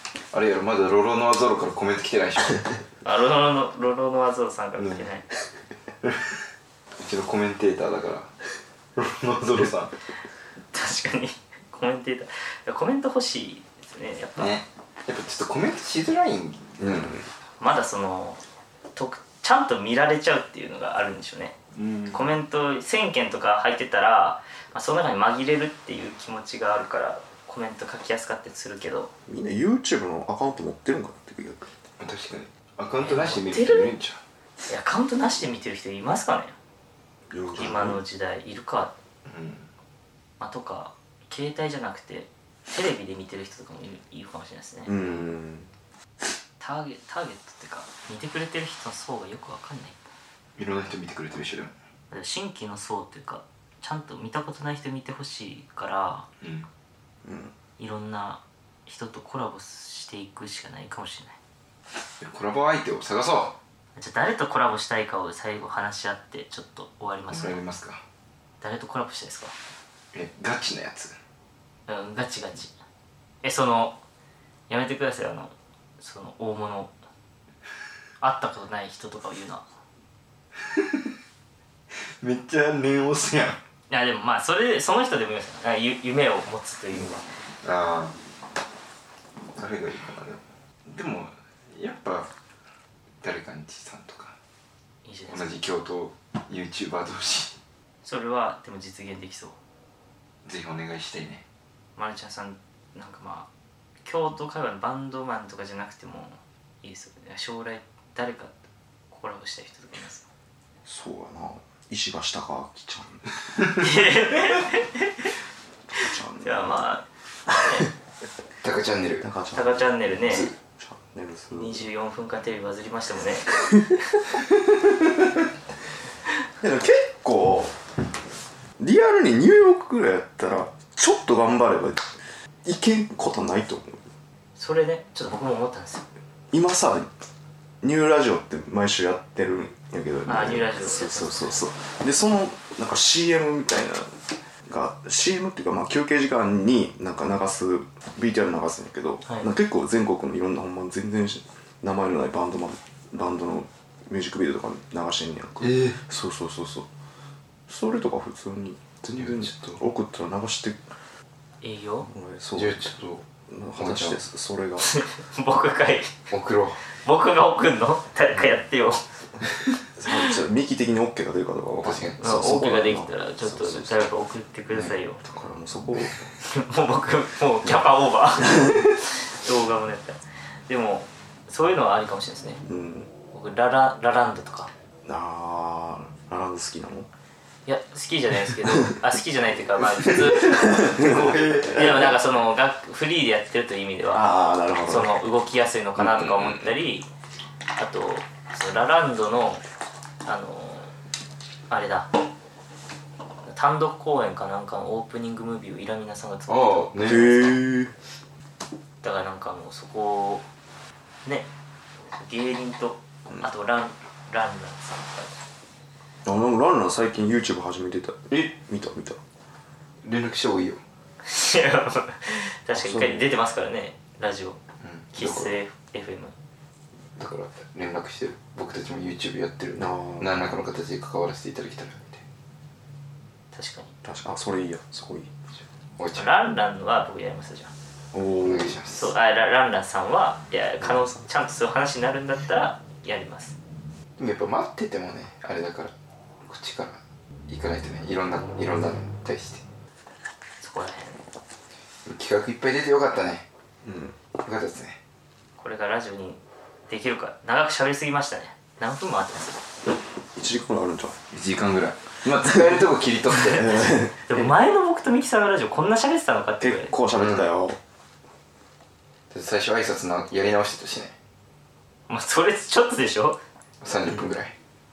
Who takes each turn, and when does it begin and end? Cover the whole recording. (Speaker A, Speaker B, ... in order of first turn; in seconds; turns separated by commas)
Speaker A: 0.3-2.7, Speaker B: 3.0-5.2, Speaker A: 4.8-5.0, Speaker A: 7.0-8.3, Speaker A: 8.9-9.9, Speaker B: 10.7-14.6, Speaker A: 14.4-17.1, Speaker C: 16.8-17.3, Speaker B: 17.6-18.4, Speaker B: 18.9-21.5, Speaker A: 21.7-22.3, Speaker B: 22.1-29.1, Speaker C: 29.3-31.7, Speaker A: 32.0-34.2, Speaker B: 33.0-33.9, Speaker B: 34.7-36.5, Speaker C: 37.3-38.0, Speaker B: 37.5-38.9, Speaker A: 39.2-39.7, Speaker B: 40.4-45.0, Speaker C: 44.9-45.7, Speaker B: 46.6-50.1, Speaker A: 50.6-51.7, Speaker B: 52.1-56.3, Speaker A: 56.4-56.7, Speaker C: 57.2-57.5, Speaker B: 57.8-61.4, Speaker A: 62.2-63.5, Speaker B: 64.0-67.6, Speaker A: 67.3-68.0, Speaker B: 68.6-69.5, Speaker A: 70.1-71.2, Speaker B: 71.9-72.7, Speaker B: 73.4-74.0, Speaker B: 74.7-76.9, Speaker B: 78.2-79.6, Speaker A: 82.2-83.6, Speaker B: 83.9-87.2, Speaker A: 87.6-88.2, Speaker A: 89.5-92.3, Speaker A: 93.2-94.3, Speaker B: 95.0-95.6, Speaker A: 95.3-97.6, Speaker B: 98.0-99.6, Speaker A: 100.4-101.4, Speaker B: 102.0-103.5, Speaker B: 104.0-108.6, Speaker B: 109.1-110.2, Speaker C: 110.8-113.2, Speaker B: 113.8-115.3, Speaker C: 115.9-116.8, Speaker B: 115.9-117.9, Speaker A: 118.6-119.3, Speaker C: 119.2-121.8, Speaker B: 119.5-120.5, Speaker B: 121.5-123.6, Speaker C: 126.6-127.8, Speaker C: 128.8-134.1, Speaker B: 134.6-136.1, Speaker C: 136.5-137.1, Speaker C: 137.8-156.9, Speaker B: 140.2-141.6, Speaker A: 155.6-156.0, Speaker C: 157.7-160.9, Speaker A: 159.2-159.8, Speaker B: 161.6-162.1, Speaker C: 162.1-162.9, Speaker A: 162.5-163.2, Speaker C: 163.5-164.9, Speaker A: 163.8-164.2, Speaker B: 164.8-166.1, Speaker A: 166.3-166.8, Speaker B: 167.0-169.0, Speaker C: 170.0-174.0, Speaker A: 171.7-172.2, Speaker B: 172.2-175.2, Speaker C: 175.2-176.3, Speaker B: 176.4-182.6, Speaker C: 178.4-178.8, Speaker C: 182.6-183.1, Speaker B: 183.3-184.7, Speaker C: 185.0-187.1, Speaker B: 187.7-194.2, Speaker C: 188.7-189.0, Speaker C: 190.1-191.9, Speaker A: 190.6-192.1, Speaker C: 194.1-195.1, Speaker B: 194.9-197.1, Speaker C: 196.0-196.7, Speaker B: 197.8-199.6, Speaker B: 200.2-200.9, Speaker B: 201.7-202.1, Speaker B: 203.4-207.4, Speaker A: 206.5-207.5, Speaker C: 207.0-207.9, Speaker B: 209.0-210.4, Speaker B: 212.1-215.3, Speaker C: 216.2-219.2, Speaker A: 220.0-220.8, Speaker B: 221.2-224.6, Speaker C: 222.7-223.3, Speaker A: 224.8-225.5, Speaker B: 225.1-226.3, Speaker A: 227.2-232.2, Speaker C: 229.8-230.5, Speaker B: 233.5-233.9, Speaker C: 234.0-235.3, Speaker A: 236.0-236.3, Speaker B: 236.1-237.7, Speaker C: 238.1-238.8, Speaker A: 238.4-239.1, Speaker B: 238.9-243.6, Speaker C: 240.8-241.2, Speaker A: 244.2-245.9, Speaker A: 246.4-249.6, Speaker B: 250.6-251.2, Speaker A: 252.1-253.4, Speaker C: 253.8-254.1, Speaker A: 254.4-255.0, Speaker B: 255.6-259.6, Speaker C: 260.3-261.2, Speaker A: 261.3-263.9, Speaker C: 263.5-264.5, Speaker B: 264.2-266.9, Speaker C: 266.6-267.8, Speaker A: 267.1-267.5, Speaker A: 269.3-271.1, Speaker B: 272.1-273.4, Speaker A: 273.8-274.5